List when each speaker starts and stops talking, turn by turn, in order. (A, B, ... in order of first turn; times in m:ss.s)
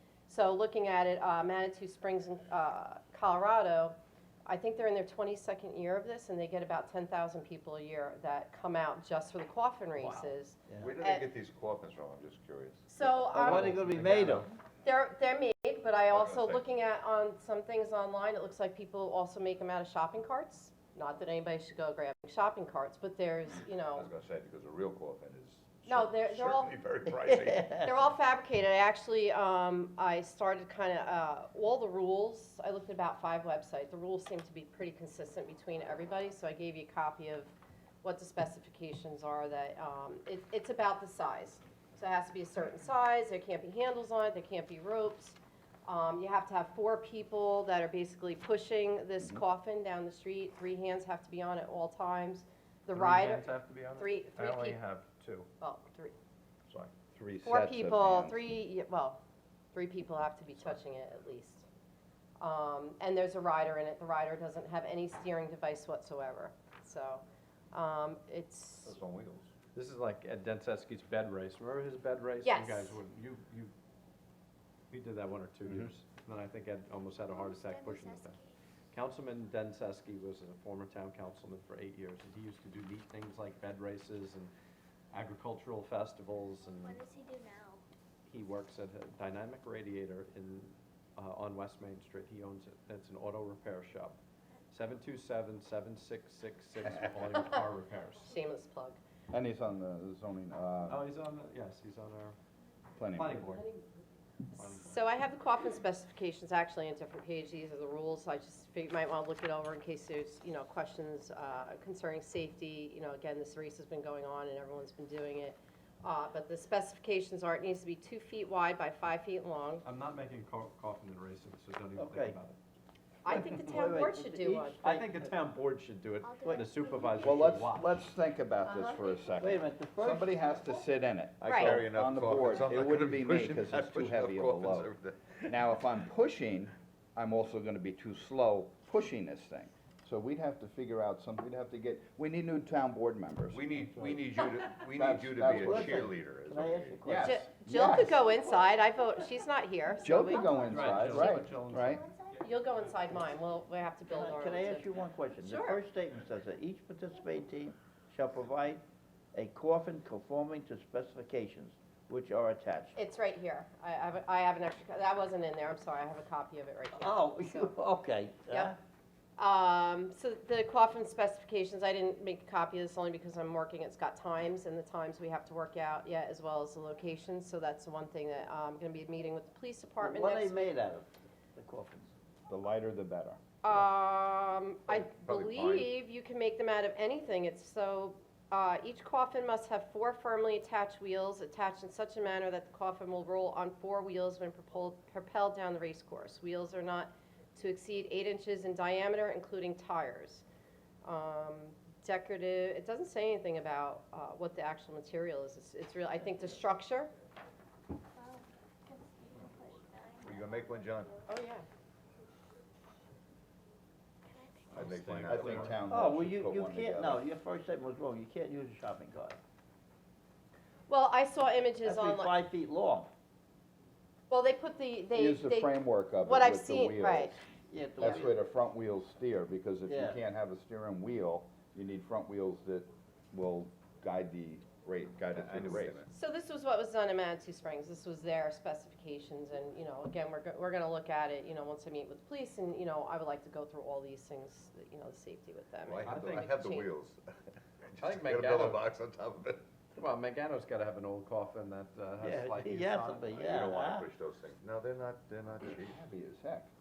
0:00.3-0:03.9 A
0:04.4-0:11.3 A
0:10.8-0:12.9 B
0:12.9-0:13.9 A
0:13.0-0:14.5 C
0:13.4-0:14.5 D
0:14.8-0:24.1 A
0:16.1-0:16.6 B
0:23.9-0:27.8 B
0:25.8-0:26.7 A
0:27.3-0:27.9 C
0:27.8-0:37.5 A
0:38.0-0:54.8 A
0:52.9-0:55.5 D
0:55.6-0:56.2 A
0:57.1-0:58.4 E
0:57.4-0:59.2 A
0:59.7-1:01.6 A
1:02.4-1:09.0 A
1:08.8-1:09.5 B
1:09.7-1:13.7 D
1:12.4-1:13.0 A
1:14.9-1:18.4 D
1:17.2-1:18.6 F
1:18.9-1:24.5 D
1:25.1-1:27.0 D
1:26.7-1:27.8 F
1:28.2-1:34.2 D
1:34.7-1:38.3 D
1:37.3-1:37.6 A
1:38.2-1:39.0 A
1:39.3-1:41.1 E
1:40.8-1:42.4 D
1:43.0-1:43.6 E
1:43.2-1:43.7 D
1:44.6-1:45.0 D
1:44.6-1:59.8 A
1:59.8-2:02.6 D
2:02.0-2:02.4 C
2:03.2-2:04.8 A
2:03.6-2:05.1 C
2:04.8-2:07.9 D
2:06.2-2:07.7 F
2:07.2-2:14.9 E
2:08.6-2:09.1 A
2:09.4-2:10.5 C
2:11.4-2:11.9 C
2:11.5-2:11.8 A
2:11.7-2:15.6 B
2:15.5-2:23.6 E
2:23.5-2:27.0 B
2:23.9-2:24.2 D
2:24.9-2:26.1 E
2:25.5-2:27.5 C
2:27.0-2:28.2 E
2:27.2-2:31.4 A
2:28.4-2:28.8 F
2:30.0-2:32.0 E
2:30.2-2:32.9 F
2:30.7-2:32.5 D
2:32.4-2:35.8 A
2:34.1-2:38.8 C
2:39.3-2:43.0 C
2:42.9-2:47.7 A
2:46.9-2:48.8 C
2:48.5-2:48.7 A
2:49.4-3:00.6 A
3:00.0-3:02.1 C
3:02.5-3:03.4 E
3:03.6-3:20.4 A
3:04.9-3:05.9 B
3:21.0-3:27.1 A
3:28.1-3:31.3 F
3:30.2-3:31.2 B
3:31.3-3:31.6 A
3:34.3-3:34.8 F
3:34.7-3:35.8 D
3:34.7-3:35.8 B
3:35.2-3:37.2 E
3:35.9-3:39.4 C
3:40.9-3:42.3 A
3:41.8-3:43.1 C
3:44.3-3:47.3 A
3:45.1-3:47.4 E
3:47.7-3:48.3 C
3:48.0-3:56.0 E
3:49.9-3:50.2 C
3:55.3-3:56.1 B
3:56.1-4:06.9 A
4:05.8-4:07.2 B
4:06.0-4:06.5 D
4:07.8-4:09.6 B
4:08.0-4:08.8 D
4:10.0-4:13.4 D
4:12.2-4:14.1 C
4:13.3-4:16.0 B
4:15.7-4:16.7 E